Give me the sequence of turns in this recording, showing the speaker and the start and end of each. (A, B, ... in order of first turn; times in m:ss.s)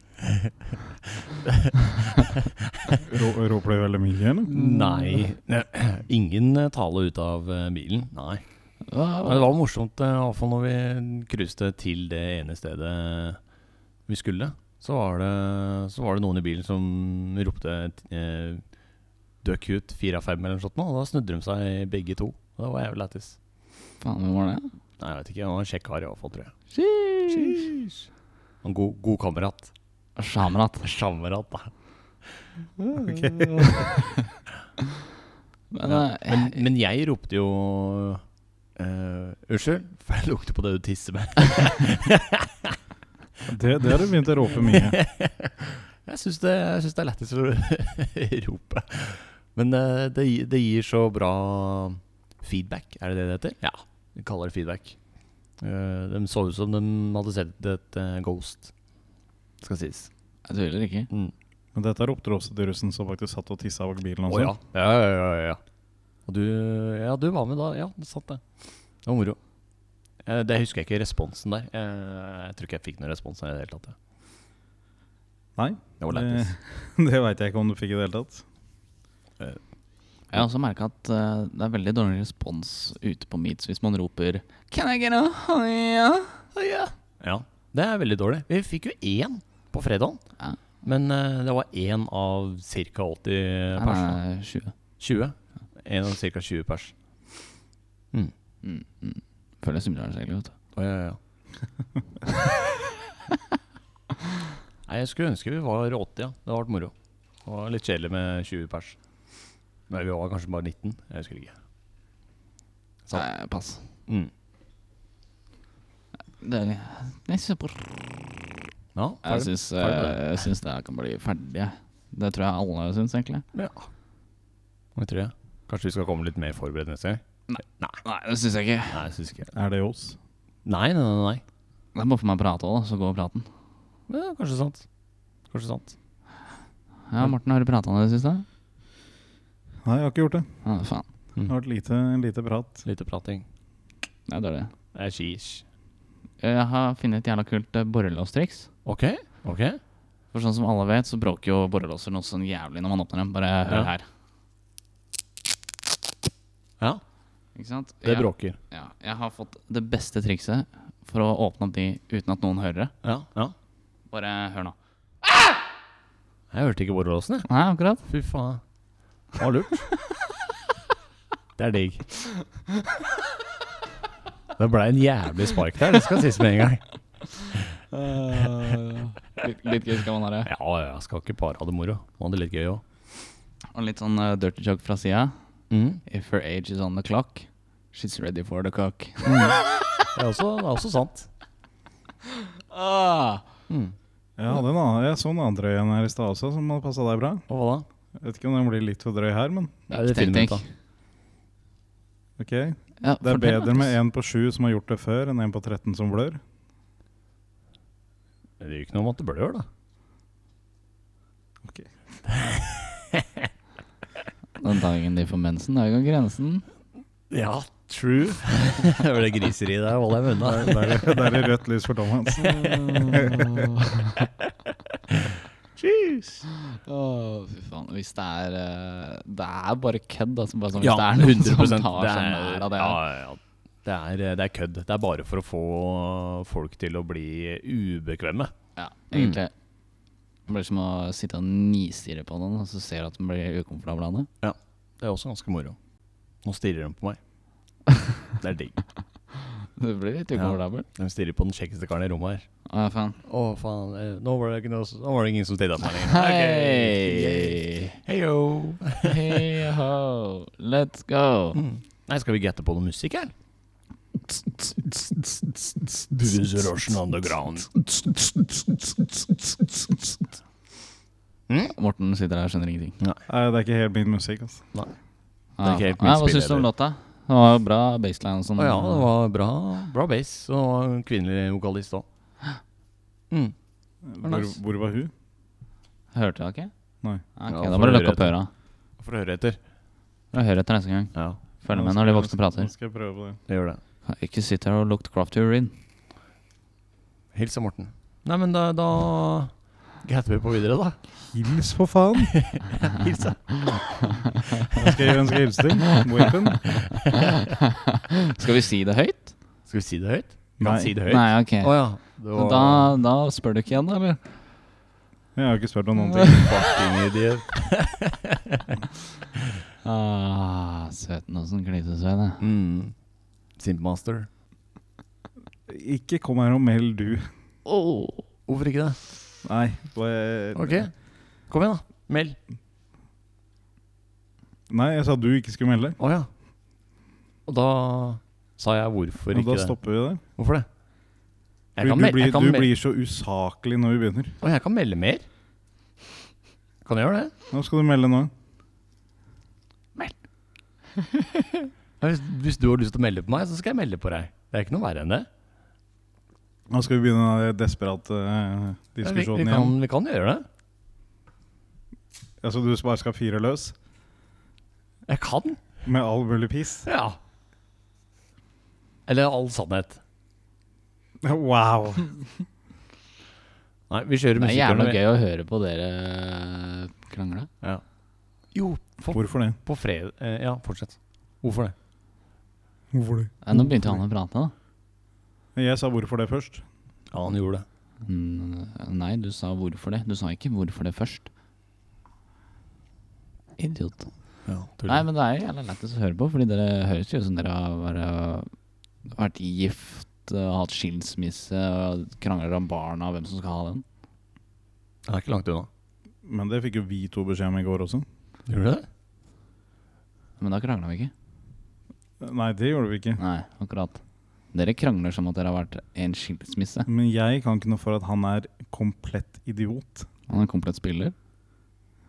0:00.2-0:03.0 A
0:03.0-0:04.6 B
0:04.5-0:08.4 A
0:04.7-0:05.2 C
0:08.9-0:09.5 C
0:09.2-0:13.4 A
0:14.1-0:18.6 A
0:19.4-0:23.4 A
0:24.0-0:24.7 C
0:25.0-0:26.6 A
0:26.7-0:27.7 C
0:27.3-0:28.1 A
0:28.6-0:29.7 A
0:30.2-0:30.8 C
0:30.8-0:31.7 A
0:32.8-0:33.9 A
0:33.0-0:33.9 B
0:35.7-0:36.6 C
0:35.8-0:38.2 A
0:38.8-0:42.8 A
0:43.5-0:45.0 B
0:44.6-0:55.0 A
0:55.6-0:58.7 A
0:59.6-1:00.1 A
1:00.5-1:01.1 C
1:01.8-1:04.5 B
1:04.3-1:05.6 A
1:06.3-1:08.4 A
1:09.0-1:09.4 A
1:10.2-1:14.0 A
1:15.6-1:18.4 B
1:16.0-1:16.5 A
1:20.3-1:26.4 C
1:26.6-1:30.2 A
1:30.8-1:34.2 A
1:33.8-1:34.7 C
1:35.0-1:36.9 A
1:38.6-1:40.5 C
1:40.8-1:41.2 A
1:44.9-1:46.9 A
1:47.4-1:49.0 A
1:49.9-1:51.6 A
1:53.1-1:53.9 C
1:56.4-1:58.0 C
1:59.0-2:00.2 A
1:59.2-2:03.4 C
2:03.5-2:03.9 A
2:05.0-2:07.2 A
2:07.5-2:09.0 C
2:08.9-2:09.5 A
2:09.5-2:10.2 B
2:10.6-2:11.4 A
2:12.0-2:13.5 C
2:14.1-2:14.8 A
2:15.5-2:15.9 A
2:17.1-2:18.4 C
2:19.8-2:20.5 B
2:20.6-2:21.1 C
2:21.5-2:22.8 B
2:22.8-2:23.4 A
2:24.3-2:24.7 C
2:24.9-2:25.6 A
2:26.4-2:28.7 C
2:28.8-2:29.8 A
2:30.3-2:34.0 C
2:37.6-2:42.9 C
2:38.0-2:38.6 A
2:43.0-2:43.6 A
2:44.1-2:44.8 C
2:46.5-2:47.5 A
2:47.5-2:48.0 C
2:48.1-2:48.6 A
2:49.4-2:49.9 A
2:51.6-2:52.0 A
2:54.6-2:56.8 A
2:57.9-3:00.5 C
3:00.4-3:02.8 A
3:03.7-3:05.4 C
3:05.7-3:06.0 A
3:06.1-3:09.7 C
3:09.3-3:09.6 A
3:10.1-3:11.3 A
3:12.7-3:13.5 C
3:13.7-3:14.0 A
3:14.4-3:17.4 B
3:17.5-3:17.9 A
3:18.2-3:19.8 B
3:19.9-3:20.6 A
3:19.9-3:20.6 C
3:22.4-3:26.4 B
3:23.0-3:24.0 C
3:28.6-3:29.7 A
3:31.6-3:31.9 B
3:32.3-3:33.5 A
3:34.6-3:36.6 C
3:37.3-3:41.4 A
3:40.4-3:43.6 B
3:42.4-3:44.2 C
3:45.1-3:46.4 A
3:46.7-3:53.0 C
3:50.8-3:58.5 A
3:58.8-3:59.5 C
3:59.1-3:59.4 A
4:00.5-4:04.3 C
4:04.4-4:05.8 A
4:06.4-4:07.2 A
4:08.4-4:08.8 A
4:09.6-4:10.9 C
4:10.4-4:12.5 A
4:12.7-4:13.2 C
4:13.3-4:19.5 A
4:16.0-4:18.0 C
4:19.0-4:21.6 C
4:21.6-4:23.3 A
4:24.3-4:30.1 A
4:31.5-4:31.8 A
4:31.8-4:33.0 C
4:33.3-4:34.6 B
4:35.6-4:39.1 C
4:35.6-4:36.7 A
4:38.6-4:42.0 A
4:44.0-4:45.1 B
4:46.1-4:46.7 C
4:47.4-4:48.5 C
4:47.5-4:48.4 A
4:49.0-4:49.6 A
4:50.3-4:52.7 C
4:51.7-4:53.4 B
4:53.5-4:53.8 A
4:54.0-4:55.7 C
4:57.3-5:01.0 A
5:01.3-5:02.4 B
5:02.3-5:05.1 A
5:04.8-5:06.9 B
5:06.7-5:07.3 A
5:07.1-5:09.3 C
5:09.7-5:12.9 A
5:10.6-5:10.9 B
5:11.1-5:14.2 C
5:15.4-5:16.5 B
5:16.1-5:16.5 C
5:16.3-5:18.8 A
5:19.8-5:22.4 C
5:22.4-5:23.0 A
5:23.6-5:24.3 A
5:25.7-5:27.3 B
5:27.7-5:28.2 C
5:28.5-5:29.0 A
5:29.4-5:30.8 B
5:30.6-5:30.9 A
5:31.5-5:32.4 A
5:34.7-5:36.0 B
5:36.0-5:36.3 A
5:37.5-5:39.8 A
5:39.3-5:40.2 B
5:40.4-5:40.7 A
5:41.8-5:42.7 A
5:41.8-5:44.4 B
5:44.4-5:45.2 A
5:46.8-5:47.3 A
5:47.5-5:48.3 B
5:51.0-5:51.6 C
5:52.0-5:55.3 A
5:56.7-5:59.8 B
5:59.0-6:00.5 A
6:02.4-6:03.8 B
6:05.1-6:05.6 A
6:05.8-6:06.9 B
6:06.9-6:07.2 A
6:09.1-6:10.0 A
6:11.2-6:12.3 B
6:13.9-6:15.0 A
6:14.4-6:17.5 C
6:18.5-6:21.8 A
6:19.1-6:19.6 B
6:22.9-6:24.0 B
6:23.4-6:24.5 C
6:25.6-6:26.6 B
6:27.1-6:27.6 A
6:28.0-6:31.3 C
6:33.6-6:34.1 C
6:34.5-6:35.0 A
6:34.9-6:38.5 C
6:39.1-6:43.8 C
6:45.1-6:45.7 A
6:46.2-6:48.1 B
6:48.5-6:48.9 A
6:50.4-6:51.1 C
6:52.2-6:53.2 B
6:53.2-6:54.0 C
6:54.5-6:56.9 C
6:56.9-7:00.1 B
7:00.3-7:01.1 C